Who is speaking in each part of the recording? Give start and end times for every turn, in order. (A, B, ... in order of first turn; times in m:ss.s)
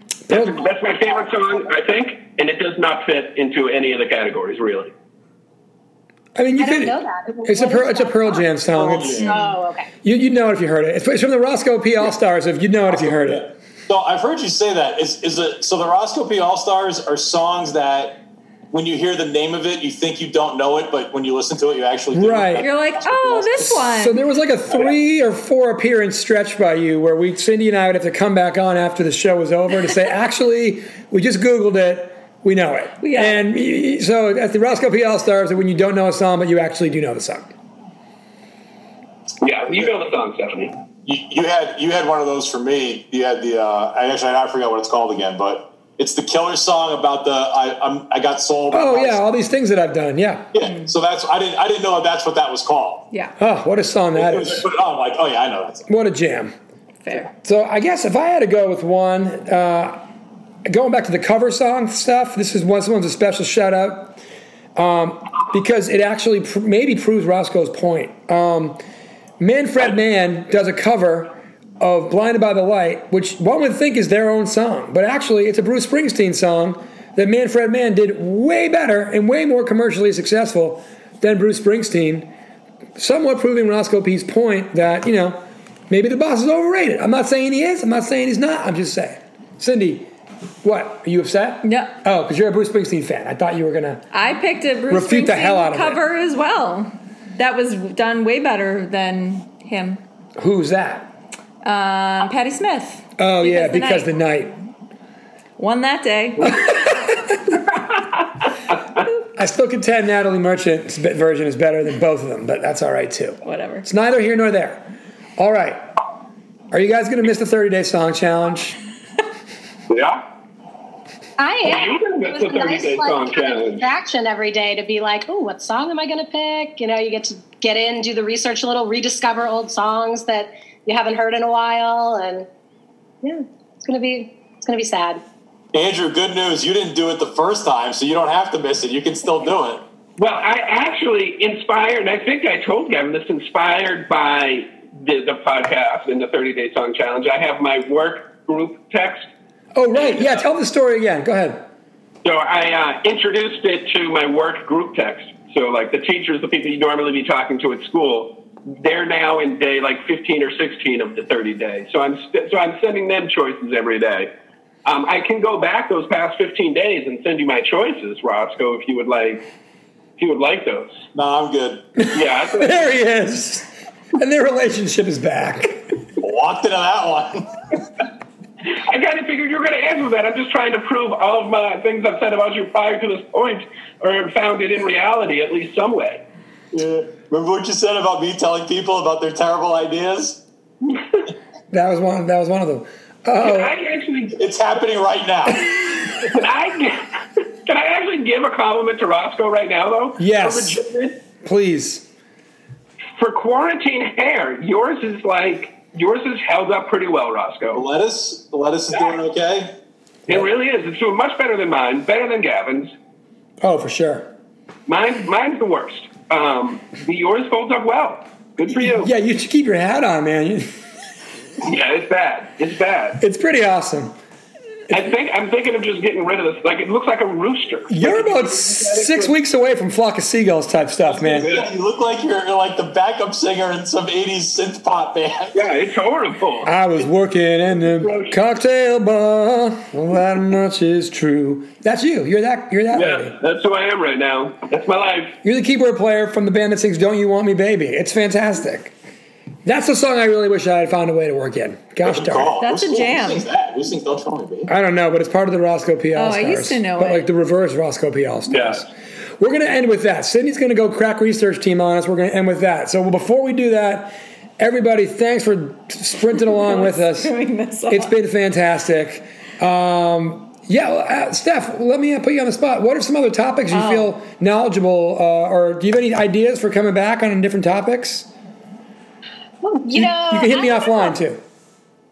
0:00.3-0:00.6 A
0:00.3-0:04.9 B
0:06.4-0:09.3 A
0:06.6-0:08.4 C
0:08.7-0:09.3 D
0:09.2-0:09.6 E
0:09.2-0:09.9 C
0:10.0-0:13.5 A
0:12.9-0:18.2 D
0:18.7-0:23.8 D
0:22.1-0:22.7 A
0:22.6-0:24.2 E
0:23.9-0:37.5 A
0:33.0-0:33.5 E
0:39.4-0:40.8 B
0:41.0-0:49.2 D
0:48.7-0:50.5 A
0:50.5-0:53.1 D
0:53.4-0:54.7 A
0:54.1-0:55.9 D
0:55.9-0:56.5 A
0:57.0-0:57.3 E
0:57.3-1:00.0 A
1:00.6-1:04.2 A
1:04.8-1:08.8 A
1:09.4-1:22.3 A
1:23.0-1:30.1 A
1:30.6-1:34.0 A
1:31.6-1:31.9 E
1:34.1-1:40.0 E
1:34.9-1:36.0 A
1:40.4-1:41.1 A
1:41.6-1:44.1 E
1:43.2-1:44.6 A
1:45.6-1:46.9 E
1:49.4-1:55.8 A
1:53.4-1:53.9 E
1:56.7-1:58.8 A
1:59.9-2:00.2 B
2:01.4-2:12.5 C
2:01.6-2:03.9 B
2:13.2-2:15.2 C
2:15.7-2:19.8 D
2:20.2-2:29.3 B
2:29.8-2:31.6 A
2:30.0-2:30.4 B
2:32.2-2:44.3 B
2:44.8-2:49.4 B
2:50.2-2:51.0 B
2:51.2-2:51.8 D
2:52.0-2:55.9 A
2:52.1-2:52.8 B
2:56.2-2:57.6 D
2:58.7-3:06.2 B
3:06.7-3:10.4 D
3:11.7-3:13.8 A
3:13.4-3:14.6 B
3:14.4-3:15.7 D
3:15.7-3:21.2 B
3:20.2-3:20.8 A
3:21.4-3:22.0 A
3:23.2-3:27.8 B
3:27.7-3:29.7 D
3:30.3-3:32.9 B
3:33.6-3:34.3 A
3:34.9-3:39.1 B
3:38.8-3:40.7 A
3:41.6-3:43.2 B
3:43.2-3:44.2 A
3:44.9-3:49.3 B
3:47.9-3:51.5 A
3:51.3-3:55.6 D
3:51.3-3:51.7 B
3:55.5-3:56.7 B
3:56.6-4:03.3 A
3:57.8-3:58.4 B
4:02.9-4:05.4 B
4:05.4-4:08.9 A
4:09.6-4:12.5 A
4:12.0-4:14.7 D
4:12.6-4:13.5 E
4:14.7-4:27.3 A
4:16.2-4:17.3 E
4:18.5-4:18.8 B
4:26.6-4:28.1 E
4:27.9-4:38.3 A
4:33.7-4:34.2 E
4:39.6-4:41.2 C
4:40.0-4:41.4 A